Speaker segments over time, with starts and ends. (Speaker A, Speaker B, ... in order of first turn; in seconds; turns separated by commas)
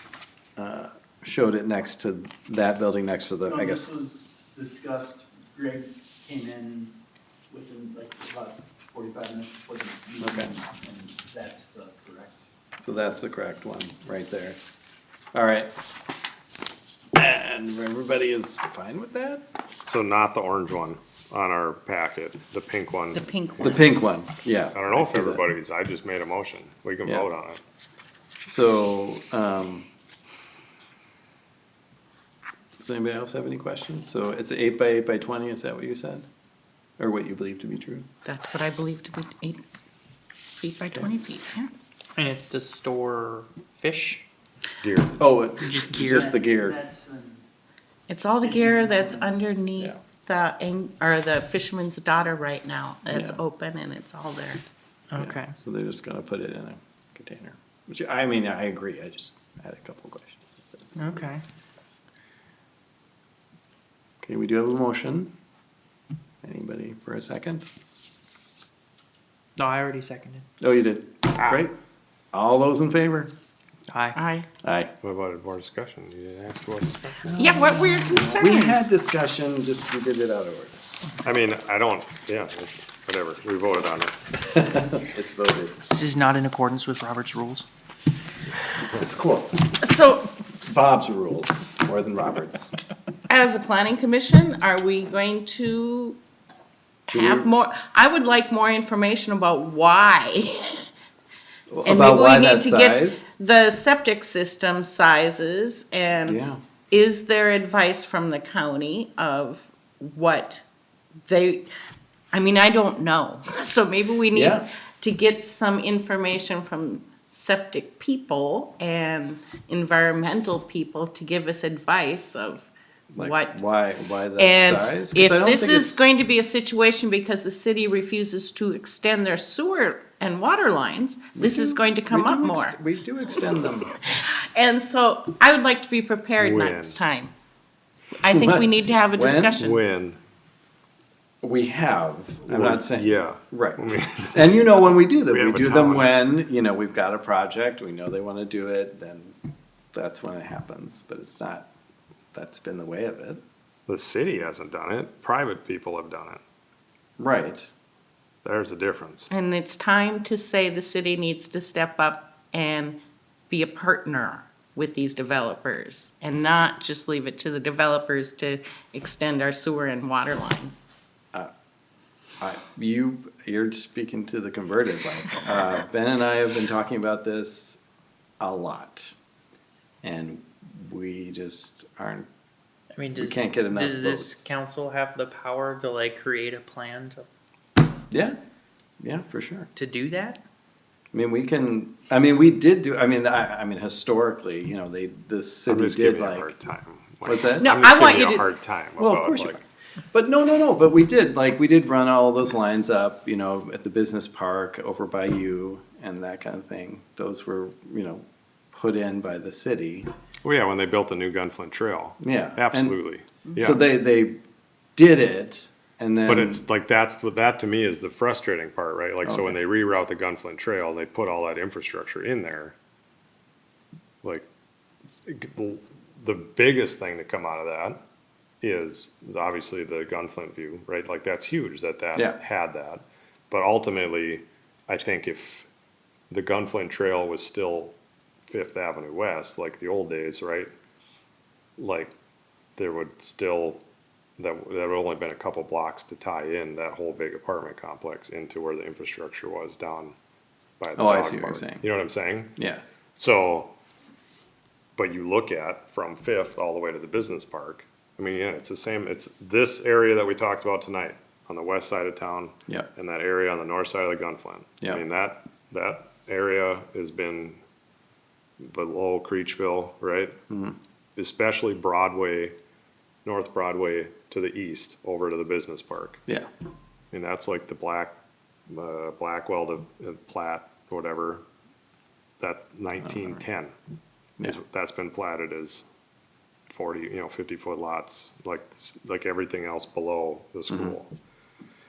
Speaker A: 0.6-3.9, Speaker B: 3.5-6.9, Speaker B: 7.5-12.5, Speaker A: 10.2-10.5, Speaker A: 12.8-14.6, Speaker A: 15.3-15.7, Speaker A: 17.1-19.4, Speaker C: 19.8-23.3, Speaker D: 23.1-23.9, Speaker A: 23.6-25.4, Speaker C: 24.7-27.6, Speaker A: 28.4-29.9, Speaker A: 32.8-36.2, Speaker A: 37.0-38.1, Speaker D: 38.2-39.6, Speaker D: 40.6-41.7, Speaker E: 42.1-44.2, Speaker C: 44.8-45.2, Speaker A: 45.2-46.8, Speaker E: 45.6-46.3, Speaker B: 46.1-47.4, Speaker D: 48.1-54.6, Speaker B: 48.4-49.5, Speaker A: 53.1-53.4, Speaker E: 55.1-55.5, Speaker A: 55.1-60.9, Speaker E: 61.0-61.4, Speaker A: 64.2-65.3, Speaker A: 66.4-67.6, Speaker E: 69.6-70.5, Speaker A: 70.6-71.7, Speaker A: 72.3-73.3, Speaker E: 73.9-74.2, Speaker D: 74.2-74.5, Speaker A: 74.6-74.9, Speaker C: 75.0-77.2, Speaker A: 77.2-80.8, Speaker D: 77.4-78.9, Speaker C: 81.2-84.2, Speaker A: 84.5-85.8, Speaker E: 85.9-87.7, Speaker A: 88.9-89.8, Speaker D: 89.8-90.3, Speaker A: 90.6-92.7, Speaker D: 93.3-96.2, Speaker D: 97.1-100.9, Speaker A: 97.1-97.5, Speaker A: 101.7-103.3, Speaker D: 101.8-110.6, Speaker A: 106.2-106.6, Speaker D: 111.2-111.7, Speaker D: 112.3-123.6, Speaker A: 114.3-114.6, Speaker A: 123.1-126.0, Speaker D: 124.4-132.8, Speaker A: 131.3-133.9, Speaker D: 133.5-137.3, Speaker C: 136.4-137.0, Speaker D: 138.2-139.8, Speaker A: 138.3-139.6, Speaker C: 139.5-140.2, Speaker A: 141.4-149.4, Speaker C: 142.5-144.6, Speaker C: 145.3-146.2, Speaker A: 149.9-151.7, Speaker A: 152.3-153.4, Speaker C: 153.9-156.4, Speaker A: 157.2-157.7, Speaker C: 158.4-159.3, Speaker D: 159.3-163.0, Speaker D: 163.5-170.9, Speaker A: 172.4-177.8, Speaker A: 178.4-179.1, Speaker A: 180.0-182.3, Speaker E: 182.9-187.3, Speaker A: 183.2-184.5, Speaker A: 188.1-188.4, Speaker A: 189.0-189.7, Speaker E: 189.8-190.4, Speaker A: 191.1-196.5, Speaker C: 195.7-199.6, Speaker A: 197.2-197.8, Speaker D: 197.4-198.5, Speaker A: 199.0-199.6, Speaker A: 200.1-210.1, Speaker C: 210.4-213.8, Speaker A: 212.2-212.9, Speaker A: 213.6-214.4, Speaker A: 214.9-216.6, Speaker C: 216.3-222.8, Speaker A: 219.2-219.6, Speaker C: 225.2-228.0, Speaker C: 228.6-235.7, Speaker C: 236.3-237.9, Speaker C: 238.5-240.7, Speaker C: 241.8-242.1, Speaker C: 242.8-243.8, Speaker C: 244.4-250.1, Speaker C: 250.8-252.5, Speaker A: 250.9-251.8, Speaker A: 252.6-252.8, Speaker C: 253.1-253.7, Speaker C: 255.0-267.6, Speaker C: 268.6-270.3, Speaker A: 270.5-270.8, Speaker C: 271.1-272.5, Speaker C: 273.2-276.2, Speaker C: 277.1-278.1, Speaker C: 278.7-281.4, Speaker C: 282.4-283.7, Speaker C: 284.4-285.8, Speaker C: 286.7-291.1